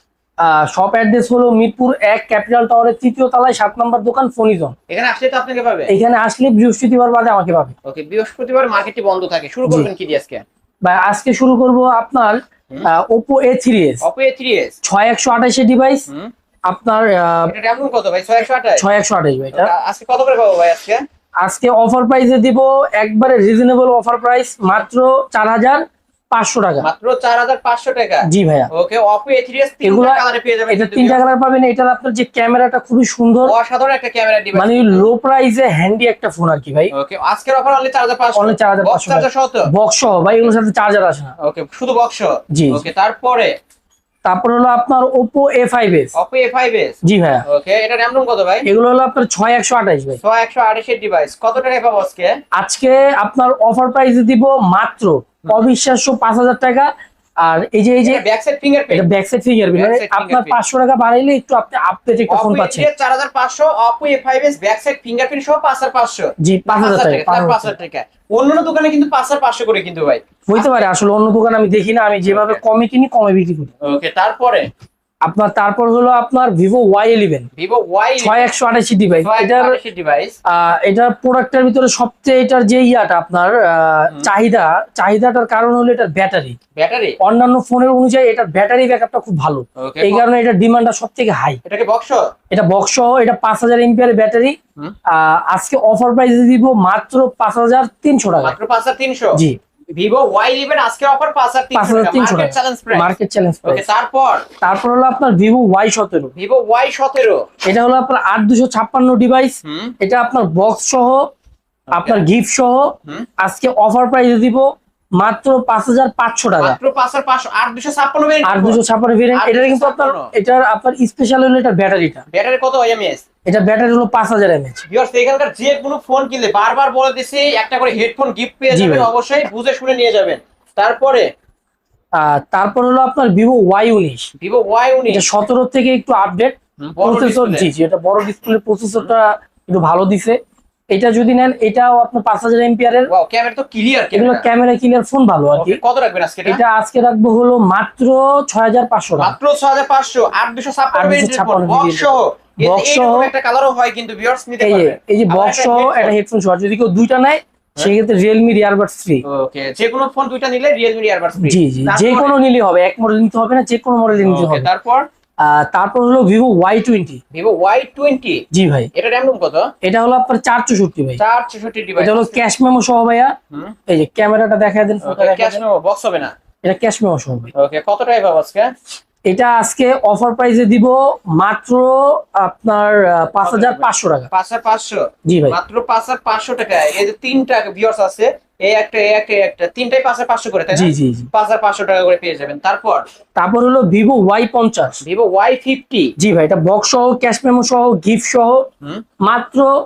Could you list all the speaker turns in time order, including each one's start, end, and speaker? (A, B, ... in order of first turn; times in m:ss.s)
0:00.4-0:04.8 A
0:04.9-0:05.9 B
0:05.9-0:07.7 A
0:07.8-0:10.4 B
0:10.8-0:14.0 A
0:14.0-0:14.8 B
0:14.8-0:16.1 A
0:16.7-0:17.5 A
0:17.5-0:18.8 B
0:18.8-0:19.7 A
0:19.5-0:21.0 B
0:21.4-0:26.9 A
0:26.8-0:31.2 B
0:28.2-0:28.7 A
0:29.8-0:33.6 A
0:33.4-0:35.1 B
0:34.6-0:36.9 A
0:36.9-0:39.7 B
0:38.4-0:41.3 A
0:41.4-0:43.5 B
0:42.5-0:42.8 A
0:44.2-0:46.1 A
0:46.2-0:48.7 B
0:47.0-0:47.4 A
0:48.6-0:50.2 A
0:50.2-0:52.4 B
0:52.6-0:56.9 A
0:55.4-0:55.7 B
0:57.4-0:58.2 A
0:58.0-0:59.1 B
0:58.9-1:02.9 A
0:59.7-1:00.6 B
1:02.3-1:10.7 B
1:06.4-1:07.7 A
1:10.5-1:13.7 A
1:12.2-1:12.6 B
1:13.8-1:14.7 B
1:15.3-1:17.5 A
1:17.6-1:18.5 B
1:18.2-1:19.8 A
1:19.1-1:20.4 B
1:20.5-1:26.6 A
1:26.8-1:27.2 B
1:27.2-1:31.6 A
1:29.8-1:30.3 B
1:31.6-1:32.2 B
1:32.5-1:34.6 A
1:35.1-1:38.6 A
1:38.4-1:39.4 B
1:39.9-1:43.1 B
1:41.8-1:43.8 A
1:43.6-1:44.5 B
1:44.6-1:46.3 A
1:46.4-1:47.4 B
1:47.7-1:51.3 A
1:49.6-1:50.0 B
1:51.9-1:52.2 B
1:51.9-1:54.7 A
1:55.2-1:56.8 A
1:56.6-2:00.3 B
1:58.4-2:02.2 A
2:02.3-2:03.2 B
2:03.5-2:04.8 A
2:04.9-2:11.3 B
2:08.7-2:09.1 A
2:12.2-2:14.3 A
2:14.4-2:15.3 B
2:15.1-2:20.4 A
2:16.8-2:17.7 B
2:20.9-2:23.1 A
2:23.1-2:24.5 B
2:24.1-2:25.8 A
2:25.6-2:26.6 B
2:26.5-2:29.4 A
2:29.2-2:36.2 B
2:30.9-2:33.3 A
2:34.6-2:39.2 A
2:39.2-2:42.4 B
2:41.4-2:44.7 A
2:44.2-2:45.1 B
2:45.4-2:47.2 A
2:47.3-2:49.7 B
2:48.5-2:48.9 A
2:49.8-2:51.2 A
2:51.2-2:52.4 B
2:52.0-2:53.3 A
2:53.9-2:55.6 A
2:55.0-2:56.3 B
2:56.6-2:57.5 A
2:57.5-2:58.7 B
2:59.3-3:04.3 A
3:03.4-3:13.0 B
3:05.3-3:05.6 A
3:10.7-3:11.3 A
3:13.4-3:15.0 A
3:15.0-3:16.2 B
3:16.2-3:18.6 A
3:19.3-3:19.7 A